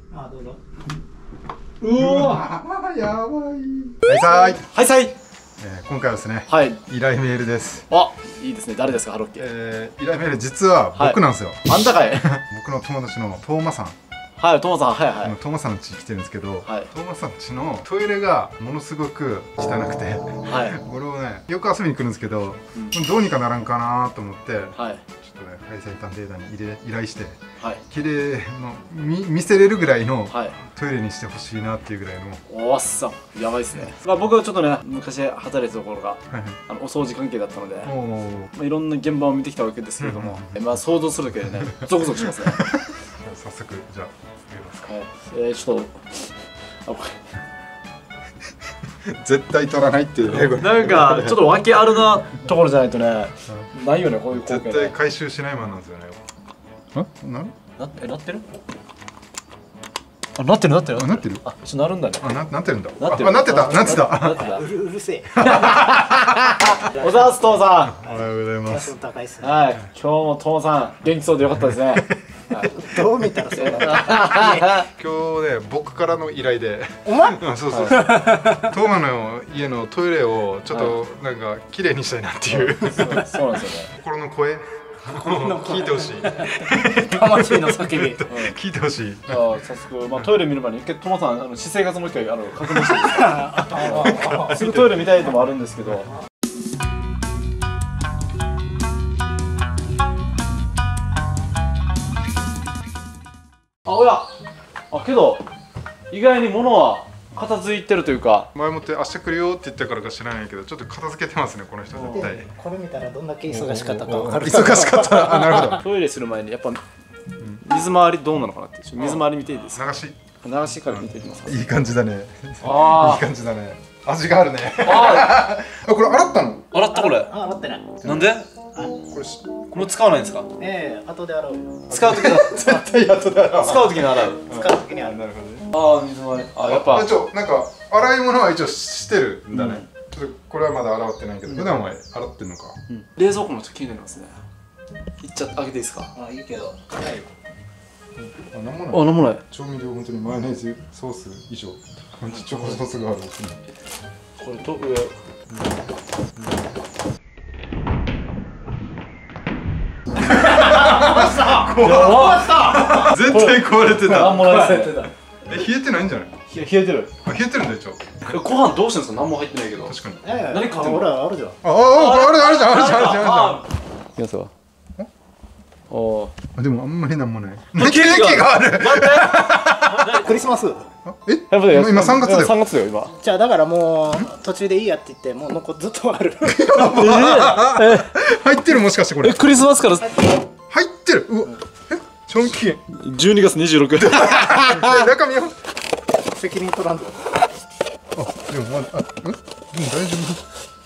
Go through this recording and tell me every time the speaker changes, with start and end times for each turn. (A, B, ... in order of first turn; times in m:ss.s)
0:00.1-0:00.6 A
0:01.8-0:02.4 B
0:01.9-0:04.6 C
0:04.3-0:05.1 B
0:05.6-0:07.9 C
0:06.5-0:06.8 B
0:07.9-0:09.5 B
0:09.4-0:14.0 C
0:11.0-0:12.4 B
0:14.4-0:15.4 B
0:15.2-0:32.4 C
0:16.6-0:16.9 B
0:20.4-0:20.8 B
0:24.7-0:25.0 B
0:30.3-0:30.6 B
0:32.5-0:37.9 B
0:36.3-0:36.6 C
0:37.8-0:38.5 C
0:38.5-0:42.6 B
0:40.0-0:40.5 C
0:42.4-0:44.9 C
0:44.8-0:46.0 B
0:46.8-0:47.2 B
0:49.0-0:51.5 C
0:50.2-0:54.9 B
0:54.3-0:56.2 C
0:56.9-0:57.5 C
0:57.8-0:58.5 B
1:00.4-1:02.3 B
1:00.9-1:01.4 C
1:02.2-1:04.4 C
1:03.0-1:04.6 B
1:04.2-1:05.8 A
1:05.3-1:08.0 B
1:06.9-1:07.5 A
1:08.0-1:08.9 C
1:08.1-1:09.6 A
1:09.4-1:12.9 B
1:12.6-1:14.7 A
1:13.5-1:14.9 B
1:14.4-1:29.4 C
1:17.0-1:17.4 A
1:17.7-1:18.4 B
1:18.0-1:18.2 A
1:20.7-1:21.0 B
1:22.5-1:23.9 B
1:25.2-1:28.2 A
1:28.2-1:28.6 B
1:29.3-1:36.1 B
1:33.0-1:34.5 A
1:33.8-1:35.1 C
1:43.8-1:44.3 B
1:44.9-1:45.4 B
1:46.1-1:48.5 B
1:48.5-1:52.5 C
1:51.9-1:52.3 B
1:52.1-1:55.6 A
1:53.5-1:55.8 C
1:53.7-1:54.4 B
1:55.6-1:56.8 B
1:57.6-1:59.8 B
1:58.9-2:00.2 C
2:00.4-2:01.6 B
2:00.9-2:06.7 C
2:02.6-2:03.2 B
2:04.8-2:05.4 B
2:06.7-2:07.3 B
2:06.9-2:07.9 A
2:08.0-2:08.3 C
2:08.0-2:08.5 B
2:09.1-2:09.8 C
2:09.7-2:10.5 B
2:10.6-2:11.9 A
2:11.9-2:15.7 C
2:11.9-2:12.7 B
2:13.6-2:14.4 B
2:14.4-2:15.2 A
2:15.7-2:17.1 B
2:16.6-2:22.8 C
2:19.5-2:19.9 B
2:22.9-2:24.3 B
2:25.2-2:26.1 B
2:26.1-2:27.3 A
2:28.5-2:33.6 C
2:28.9-2:29.4 B
2:32.3-2:32.8 B
2:34.4-2:35.1 B
2:35.5-2:35.8 C
2:36.4-2:36.6 C
2:40.2-2:43.1 A
2:40.3-2:44.6 C
2:41.6-2:45.1 B
2:44.4-2:45.1 A
2:45.5-2:46.4 C
2:46.5-2:47.1 B
2:47.2-2:48.4 C
2:48.2-2:51.1 B
2:49.9-2:50.2 C
2:50.2-2:51.6 A
2:51.6-2:53.6 C
2:51.8-2:54.5 B
2:55.9-2:56.3 B
2:56.5-3:00.1 C
2:57.7-3:00.3 B
3:00.0-3:00.9 A
3:01.0-3:02.6 C
3:01.5-3:03.2 B
3:03.2-3:07.1 A
3:06.4-3:09.4 C
3:06.7-3:08.3 B
3:09.2-3:10.4 B
3:10.0-3:10.4 A
3:10.7-3:12.8 C
3:12.9-3:15.1 B
3:14.0-3:15.5 C
3:16.2-3:17.4 A
3:18.1-3:20.4 C